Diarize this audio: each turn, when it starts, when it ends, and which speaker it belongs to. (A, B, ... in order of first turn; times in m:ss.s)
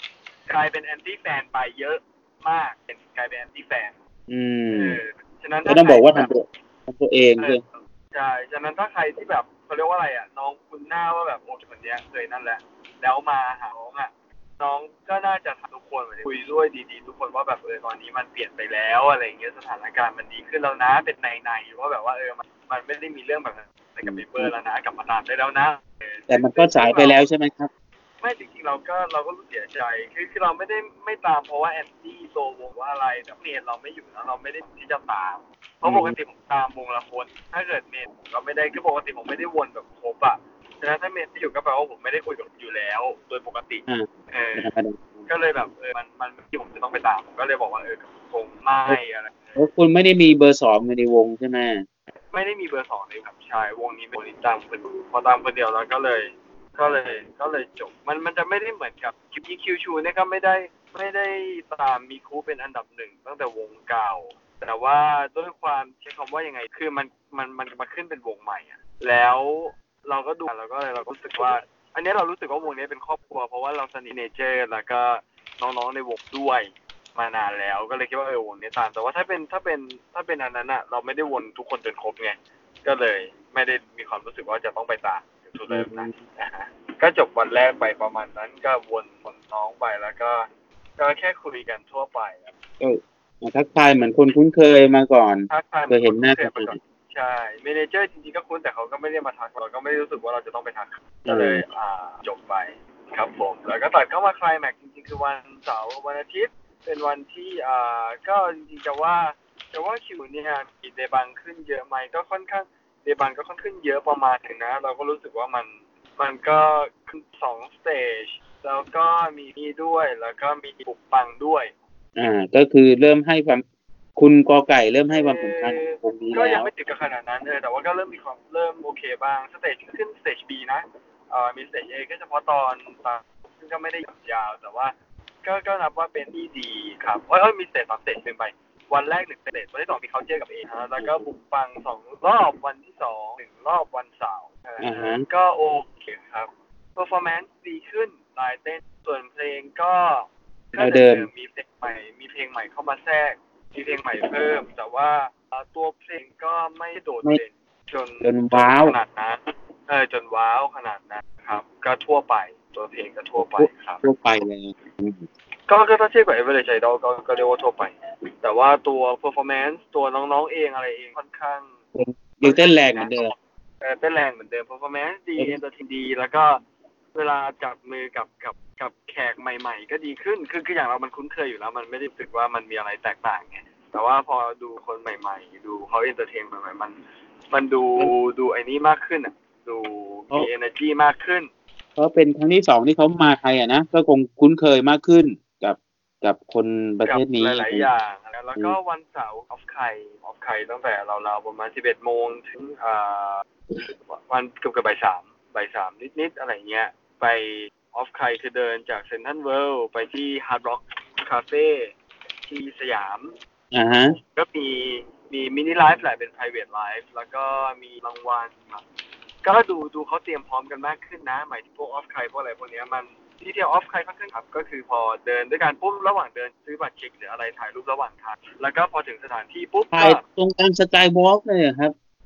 0:00.5-0:03.9 A
0:04.3-0:05.0 B
0:04.7-0:06.3 A
0:05.6-0:07.6 B
0:07.4-0:27.2 A
0:24.0-0:24.5 B
0:26.3-0:27.7 B
0:28.2-0:44.7 A
0:35.8-0:36.2 B
0:43.9-0:45.3 B
0:45.3-0:49.6 A
0:49.6-0:51.8 B
0:52.3-1:32.5 A
1:25.7-1:26.2 B
1:32.8-1:36.8 B
1:35.5-2:01.7 A
1:41.3-1:41.6 B
2:02.2-2:03.6 B
2:04.2-2:06.7 B
2:05.1-2:44.0 A
2:21.0-2:21.2 B
2:24.8-2:25.2 B
2:30.8-2:31.3 B
2:38.2-2:39.0 B
2:43.4-2:45.2 B
2:45.7-2:51.7 A
2:51.9-2:53.3 B
2:52.4-2:53.3 A
2:53.8-2:56.6 A
2:57.1-3:07.0 A
3:07.5-3:11.5 A
3:12.0-3:17.9 B
3:17.0-3:23.4 A
3:24.1-3:31.9 A
3:32.4-3:33.3 A
3:33.7-3:34.2 B
3:34.2-3:38.8 A
3:39.4-3:50.2 A
3:49.9-3:51.9 B